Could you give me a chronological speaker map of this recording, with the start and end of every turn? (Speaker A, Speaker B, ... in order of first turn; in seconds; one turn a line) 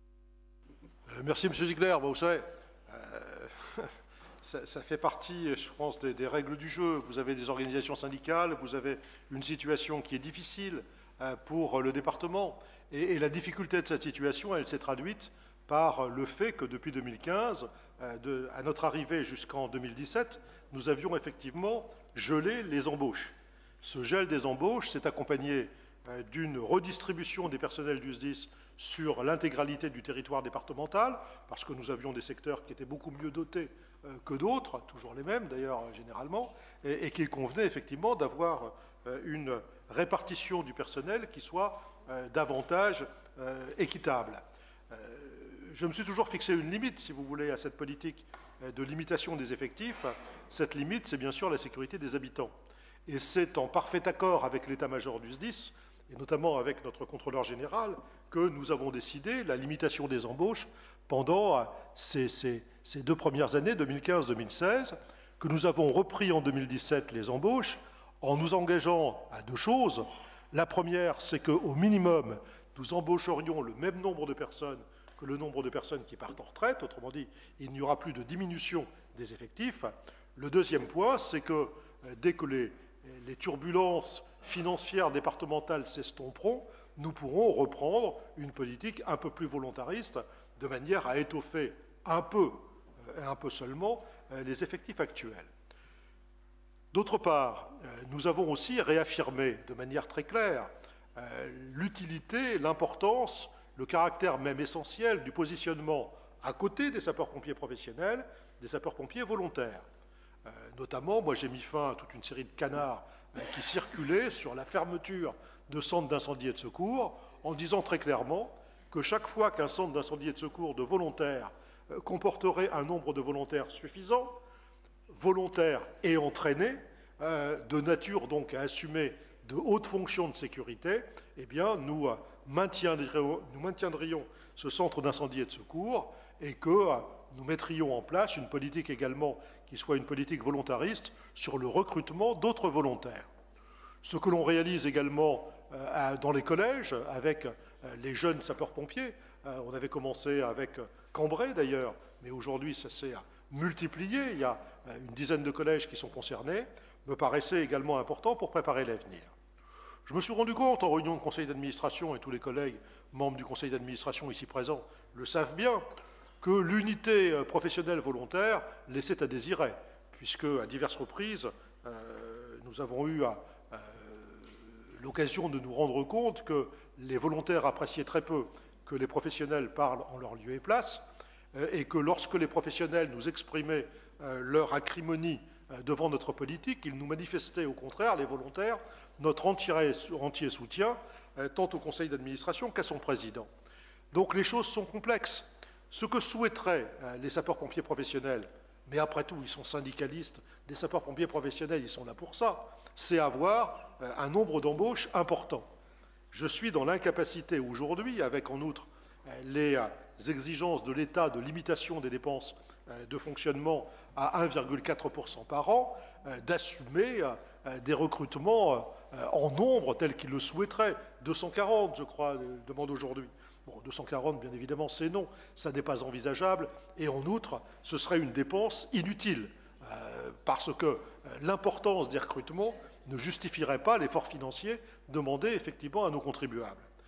Speaker A: 1.1-52.5
Speaker A: 53.0-95.5
Speaker A: 96.9-109.8
Speaker A: 110.5-124.4
Speaker A: 125.1-143.3
Speaker A: 144.0-159.3
Speaker A: 160.1-165.8
Speaker A: 166.4-193.5
Speaker A: 194.1-205.7
Speaker A: 206.3-236.8